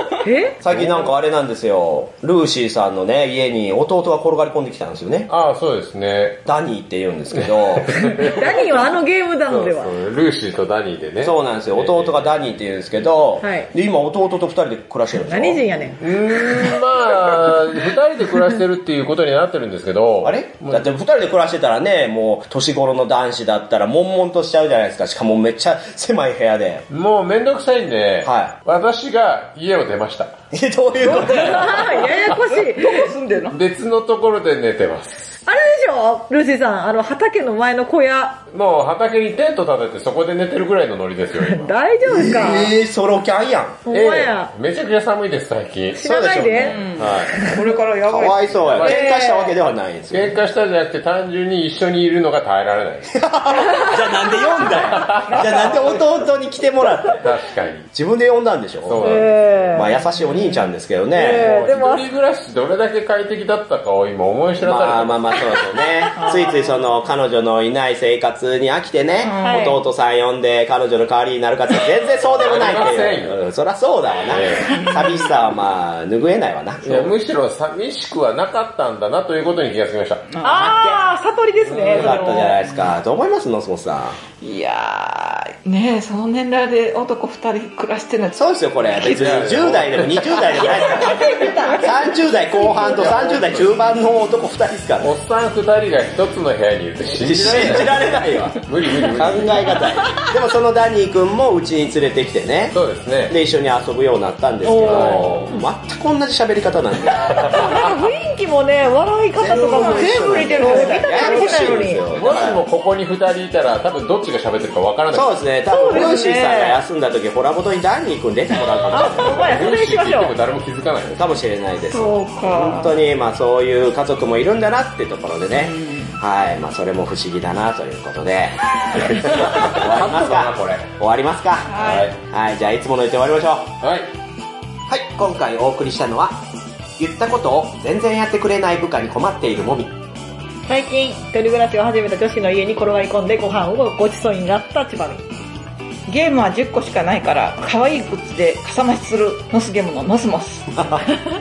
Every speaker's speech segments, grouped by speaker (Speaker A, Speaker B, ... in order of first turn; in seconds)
Speaker A: 0.2-0.6, 8.1-9.9, 13.4-13.7, 15.3-16.0, 31.1-33.5, 35.5-38.4, 41.4-42.7, 43.9-44.5, 45.9-47.6, 48.8-49.5, 53.6-56.0, 59.0-60.0, 61.1-62.1, 69.4-69.8, 80.4-82.6, 90.7-93.3, 99.6-100.2, 104.6-105.4, 107.5-112.0, 115.7-116.8, 118.9-120.4, 140.7-145.3
Speaker B: 0.6-5.3, 6.5-8.5, 11.2-15.6, 20.2-26.9, 28.2-28.6, 30.5-31.9, 42.0-43.9, 46.0-47.5, 48.0-50.3, 53.2-57.3, 57.9-61.5, 64.6-77.1, 80.5-81.0, 81.8-84.2, 88.3-95.1, 97.1-107.8, 109.3-112.6, 115.1-119.5, 121.1-133.8, 134.9-136.4, 137.0-140.0, 150.7-151.1
Speaker C: 0.7-1.1, 5.3-6.5, 7.5-8.8, 9.5-12.3, 16.0-20.9, 26.9-30.4, 31.0-31.5, 33.5-35.3, 38.5-41.7, 43.9-46.2, 48.6-49.0, 50.1-53.2, 54.9-55.6, 57.2-57.9, 58.8-59.7, 61.3-65.7, 72.4-73.4, 74.3-74.9, 76.8-80.3, 81.7-82.2, 89.0-90.5, 92.8-93.8, 95.0-98.1, 98.6-99.8, 102.7-103.4, 104.8-105.3, 107.4-107.7, 112.1-115.3, 119.1-121.2, 129.2-130.9, 131.8-132.1, 133.8-134.1
Speaker D: 31.1-33.6, 46.7-49.0, 66.2-66.8, 69.2-69.8, 74.7-75.3, 80.3-80.9, 84.4-89.3, 90.8-92.3, 109.4-111.8, 121.9-122.9, 125.5-126.2, 131.7-132.1, 146.1-150.7